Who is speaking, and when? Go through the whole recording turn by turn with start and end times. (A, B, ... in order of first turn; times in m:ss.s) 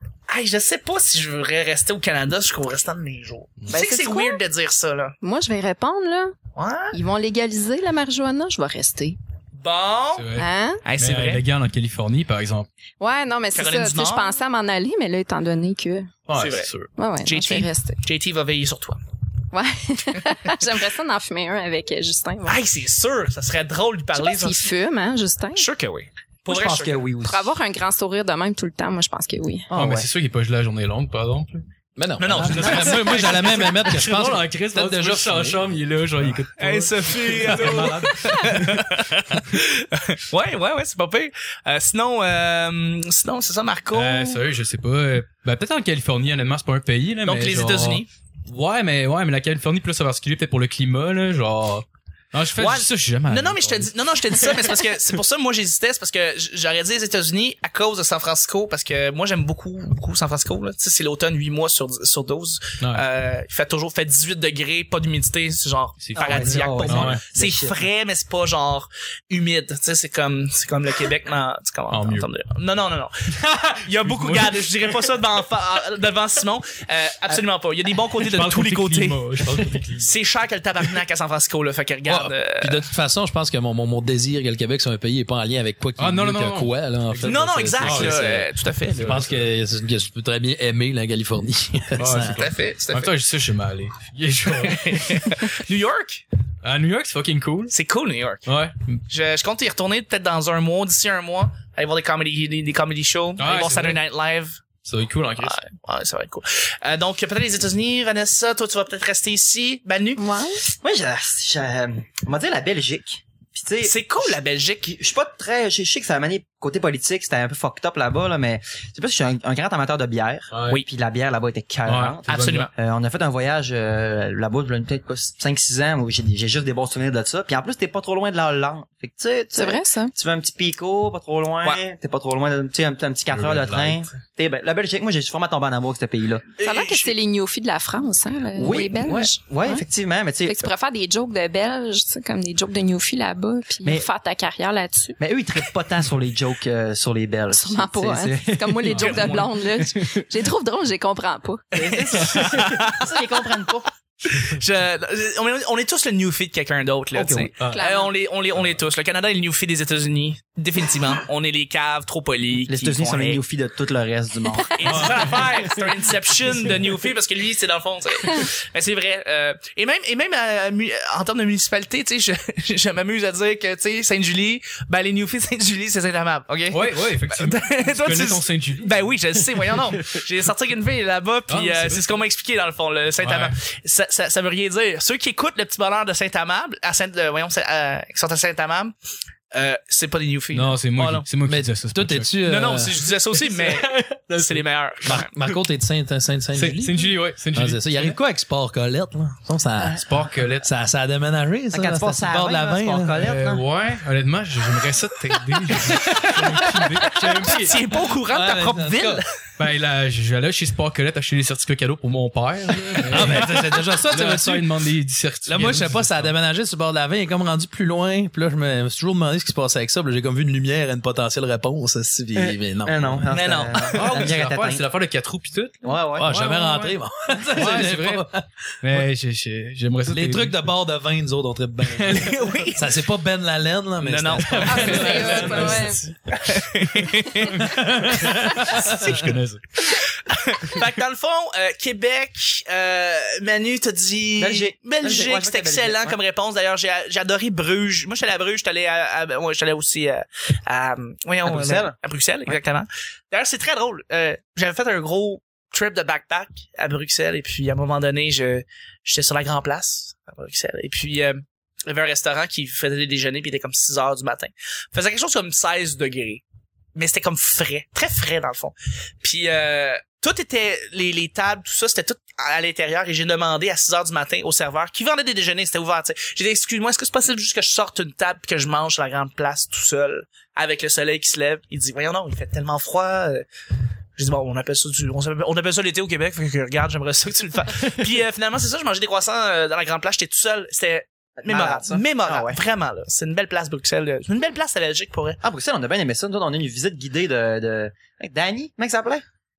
0:00.3-0:05.1 A
0:03.7-0:04.4 B
0:05.2-0:06.3 B
0:06.5-0:06.9 A
0:06.9-0:09.2 B
0:09.5-0:10.3 A
0:10.1-0:12.7 C
0:10.4-0:10.8 B
0:10.8-0:11.4 A
0:13.0-0:16.1 B
0:13.5-0:14.4 A
0:16.3-0:16.9 C
0:16.3-0:16.7 A
0:17.0-0:18.0 B
0:17.2-0:19.0 A
0:19.5-0:22.6 B
0:22.4-0:24.7 A
0:24.1-0:25.6 B
0:25.5-0:27.1 A
0:26.5-0:27.5 D
0:27.2-0:29.7 B
0:29.7-0:30.1 D
0:29.7-0:31.6 C
0:32.0-0:35.7 E
0:32.2-0:34.3 A
0:32.3-0:38.8 C
0:36.6-0:44.4 A
0:43.9-0:53.9 C
0:47.2-0:48.1 A
0:52.6-1:13.1 A
1:06.0-1:07.2 C
1:06.2-1:07.8 D
1:11.9-1:12.3 C
1:13.4-1:14.7 C
1:13.8-1:22.8 A
1:18.2-1:20.2 C
1:22.0-1:32.4 E
1:26.0-1:28.2 C
1:27.2-1:29.2 A
1:29.0-1:29.4 C
1:32.0-1:35.3 C
1:32.2-1:33.1 A
1:34.4-1:36.2 A
1:36.6-1:37.7 C
1:37.7-1:38.5 A
1:38.4-1:38.9 C
1:39.1-1:44.6 A
1:43.4-1:44.0 C
1:44.8-1:45.6 C
1:45.4-1:50.4 A
1:50.2-1:50.6 B
1:50.8-1:54.0 D
1:53.8-1:54.9 A
1:54.8-2:16.4 D
2:00.5-2:00.8 C
2:01.8-2:02.7 C
2:02.3-2:02.7 A
2:09.5-2:10.1 B
2:13.3-2:14.0 C
2:16.6-2:17.1 A
2:16.6-2:19.8 B
2:18.6-2:20.7 D
2:20.4-2:25.2 B
2:25.2-2:28.9 D
2:27.5-2:31.6 B
2:28.9-2:29.3 C
2:29.0-2:29.6 A
2:31.7-2:33.6 A
2:31.7-2:33.9 D
2:34.2-2:43.4 A
2:37.1-2:37.5 D
2:37.7-2:38.1 B
2:42.7-2:44.8 D
2:44.7-3:08.9 A
2:44.8-2:45.4 C
2:56.7-3:00.0 C
3:01.5-3:02.2 C
3:03.2-3:03.5 C
3:09.5-3:11.3 A
3:10.5-3:12.3 C
3:11.4-3:12.9 E
3:12.4-3:15.3 A
3:13.5-3:15.6 C
3:15.0-3:23.3 E
3:16.5-3:18.2 C
3:20.0-3:20.7 C
3:21.7-3:23.6 D
3:23.2-3:27.8 C
3:26.5-3:26.8 E
3:27.5-3:29.2 A
3:28.3-3:29.2 E
3:29.6-3:36.3 C
3:33.1-3:34.9 E
3:35.4-3:43.2 E
3:42.3-3:44.8 D
3:43.3-3:43.9 A
3:43.9-3:47.0 C
3:45.8-3:46.3 D
3:46.2-3:49.0 E
3:47.5-3:48.2 C
3:48.8-3:50.6 C
3:50.1-3:52.2 E
3:51.8-3:52.5 C
3:52.1-3:53.0 A
3:52.8-3:55.9 E
3:54.0-3:57.8 A
3:54.6-3:56.0 B
3:54.8-3:55.8 C
3:57.7-3:59.1 E
3:58.1-3:59.6 C
3:58.4-3:59.3 A
3:59.8-4:26.4 A
4:04.4-4:06.2 D
4:11.4-4:11.9 D
4:26.9-4:43.4 A
4:44.2-4:55.4 A
4:51.4-4:52.6 D
4:55.4-4:59.2 D